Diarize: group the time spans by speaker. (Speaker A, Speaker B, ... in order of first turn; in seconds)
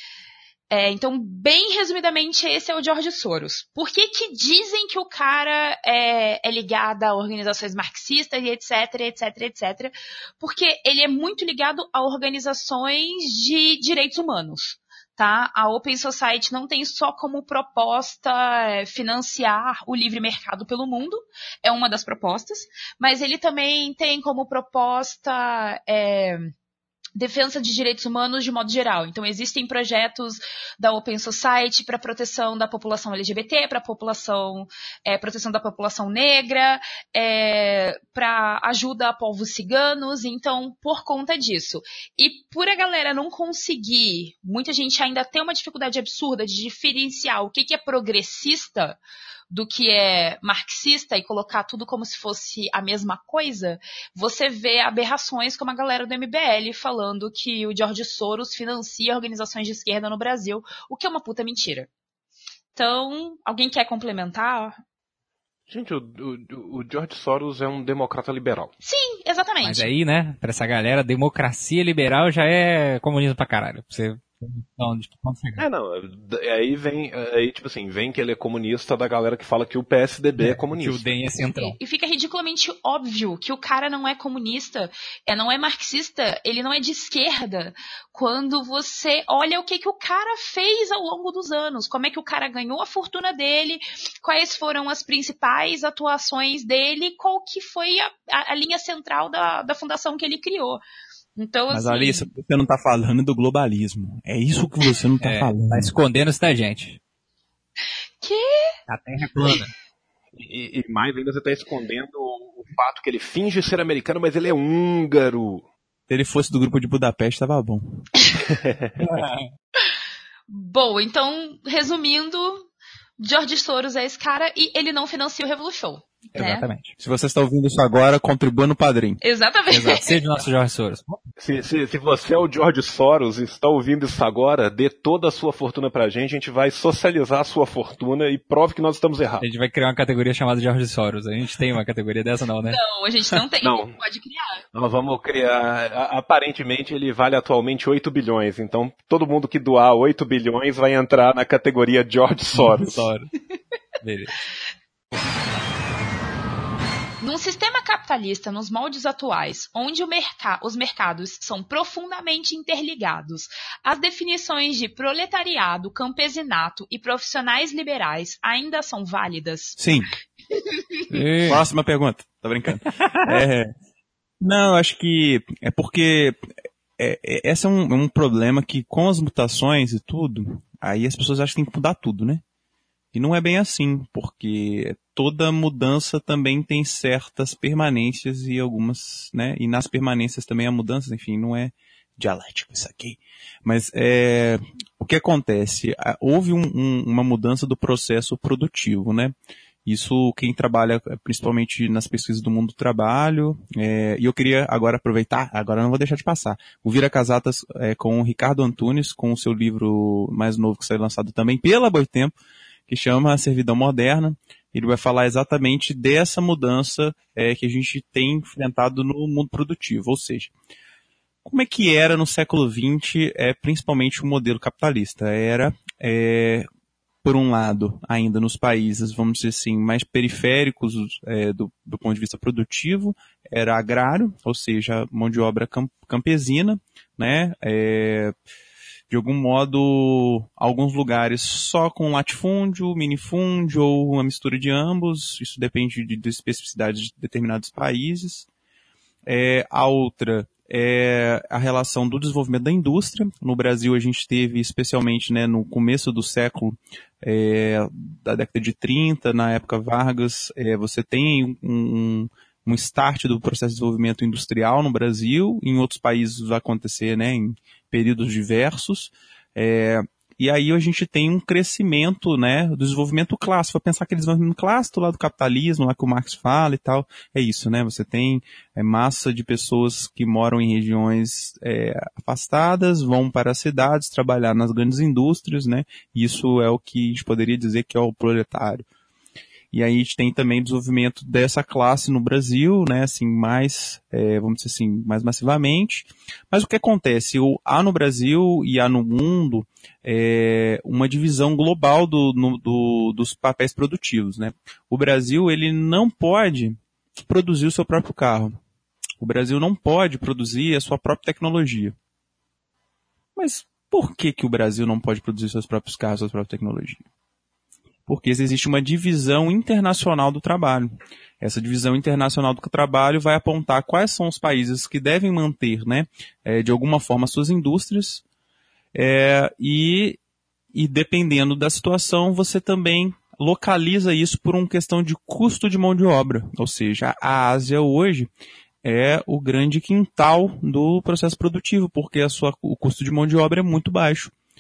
Speaker A: 0.7-26.5, 27.2-61.9, 62.8-64.8, 68.8-69.9, 81.6-100.8, 101.4-102.3, 108.2-108.8, 120.5-122.7, 123.2-126.7, 129.2-130.1, 142.7-144.6, 157.2-169.8, 170.5-171.1
Speaker B: 65.7-68.7, 75.6-81.1, 110.3-115.7, 118.5-119.0, 131.4-139.4, 143.6-144.0, 144.7-153.1
Speaker C: 69.6-75.7, 80.4-81.8, 105.2-107.0, 108.9-109.7, 119.0-119.3, 126.3-127.0, 129.7-131.2, 139.4-142.8, 152.6-153.3, 154.0-154.4, 171.1-171.6, 172.8-173.2
Speaker D: 101.7-105.9, 116.1-118.1, 127.0-129.2, 169.8-170.1, 171.5-173.7, 174.4-176.4, 177.0-182.4, 183.1-199.3, 199.8-212.3, 212.9-220.5, 221.4-226.7, 227.2-238.3, 239.1-248.5, 249.3-288.8, 289.7-308.5, 309.2-311.9, 313.4-317.0, 318.1-328.2, 328.9-330.2, 330.7-338.3, 338.8-344.3